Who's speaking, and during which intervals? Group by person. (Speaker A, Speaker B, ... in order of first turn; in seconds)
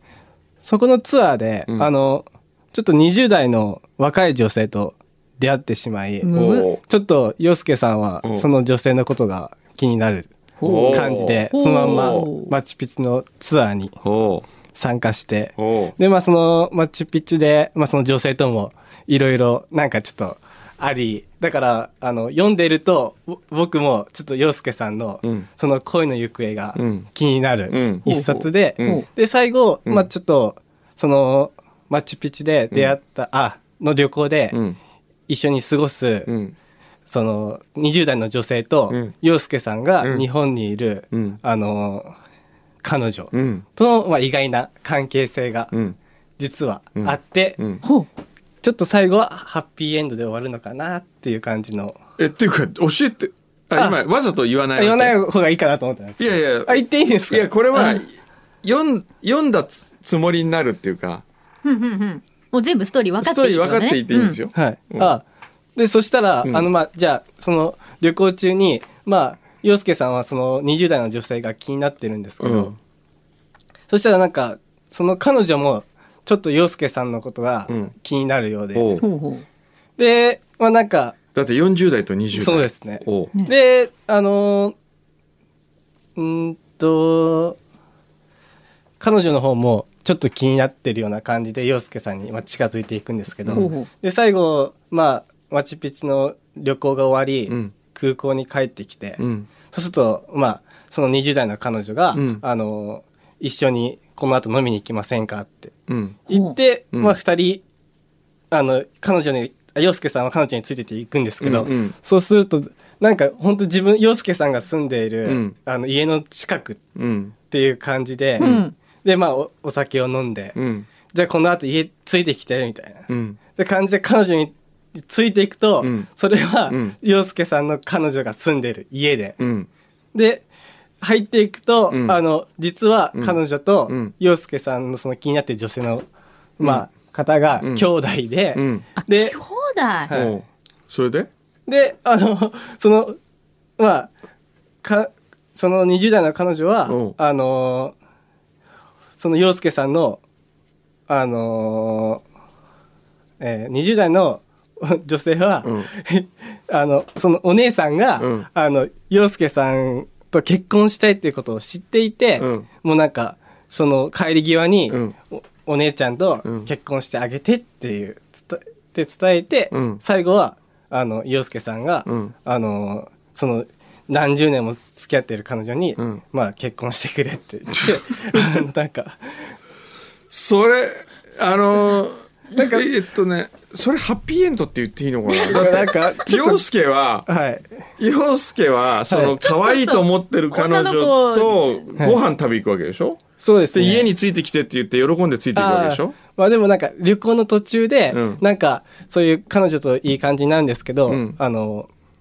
Speaker A: 0.6-10.4, 10.9-14.0, 14.7-34.6, 35.3-36.3, 37.1-42.1, 42.8-45.7, 46.4-47.6, 48.6-52.0, 54.8-58.0, 64.5-65.2, 65.8-72.7, 73.9-79.0, 80.0-81.2, 82.3-84.8, 86.2-87.6, 89.0-105.8, 106.3-107.6, 108.5-116.9, 117.4-120.6, 121.1-129.4, 130.1-130.5, 131.0-136.1, 136.6-139.4, 140.1-140.4, 141.7-143.2, 143.8-144.1, 144.8-147.9, 149.2-150.2, 151.1-152.2, 153.4-179.6, 182.6-182.8, 185.3-186.6, 187.3-187.9, 189.1-189.4, 193.4-194.1, 195.6-201.9
Speaker B: 6.2-6.7, 10.6-12.6, 28.8-29.1, 47.8-48.1, 61.6-64.4, 79.0-79.5, 93.5-93.9, 106.3-106.5, 118.4-118.8, 139.0-140.1, 189.4-191.8
Speaker C: 6.3-6.8, 10.6-12.3, 14.0-14.5, 15.6-16.0, 26.8-27.1, 27.7-29.0, 34.5-34.8, 36.3-36.5, 40.0-40.3, 41.1-41.4, 43.3-43.6, 45.7-46.0, 47.0-47.8, 52.2-55.2, 56.2-61.2, 63.2-65.2, 72.4-72.8, 78.7-79.0, 81.3-83.3, 97.5-97.8, 99.2-99.5, 102.1-102.4, 105.9-106.2, 106.9-107.2, 111.4-112.0, 115.2-115.5, 117.0-117.3, 118.4-118.6, 120.5-120.9, 123.1-123.4, 125.8-126.1, 126.7-127.0, 129.4-129.7, 131.9-132.2, 133.2-134.1, 136.6-136.9, 137.6-137.9, 138.5-138.8, 140.1-141.3, 146.9-147.2, 155.6-155.9, 158.2-158.5, 162.4-162.7, 164.9-165.2, 166.4-166.7, 169.7-170.0, 172.1-172.3, 177.7-178.6, 180.3-187.3, 188.0-196.2, 198.1-198.4, 201.1-201.4